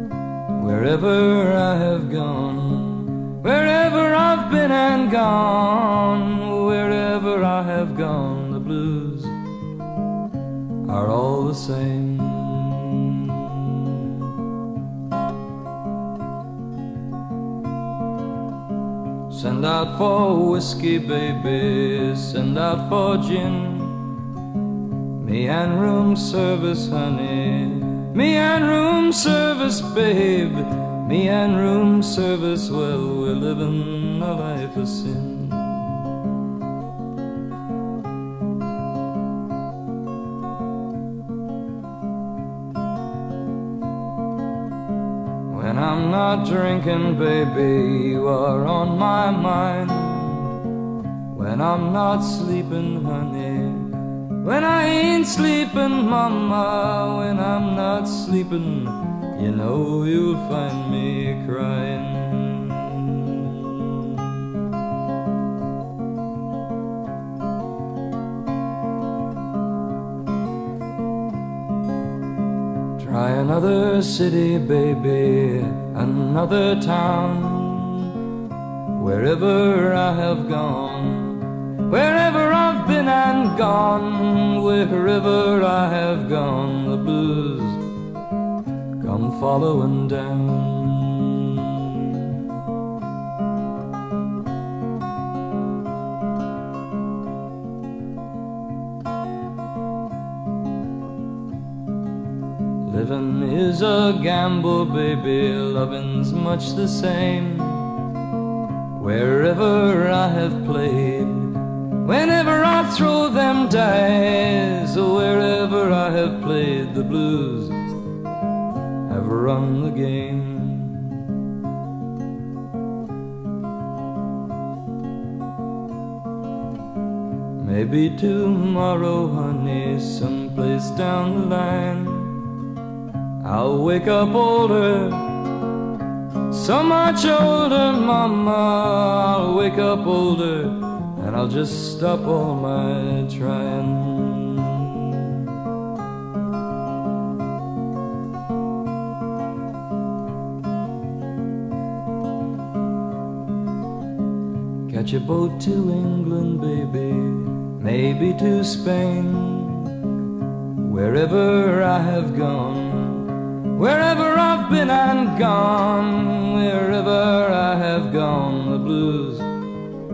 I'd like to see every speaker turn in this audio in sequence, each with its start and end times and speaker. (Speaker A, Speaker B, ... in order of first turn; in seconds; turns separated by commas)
Speaker A: 0.6-9.3, Speaker A: 10.9-14.1, Speaker A: 19.3-24.0, Speaker A: 25.2-36.0, Speaker A: 45.5-50.5, Speaker A: 51.3-64.1, Speaker A: 73.0-78.1, Speaker A: 78.9-87.8, Speaker A: 89.0-92.2, Speaker A: 102.8-107.9, Speaker A: 109.0-117.8, Speaker A: 119.1-121.1, Speaker A: 127.6-132.4, Speaker A: 133.4-135.4, Speaker A: 136.5-145.2, Speaker A: 154.9-159.9, Speaker A: 160.8-169.5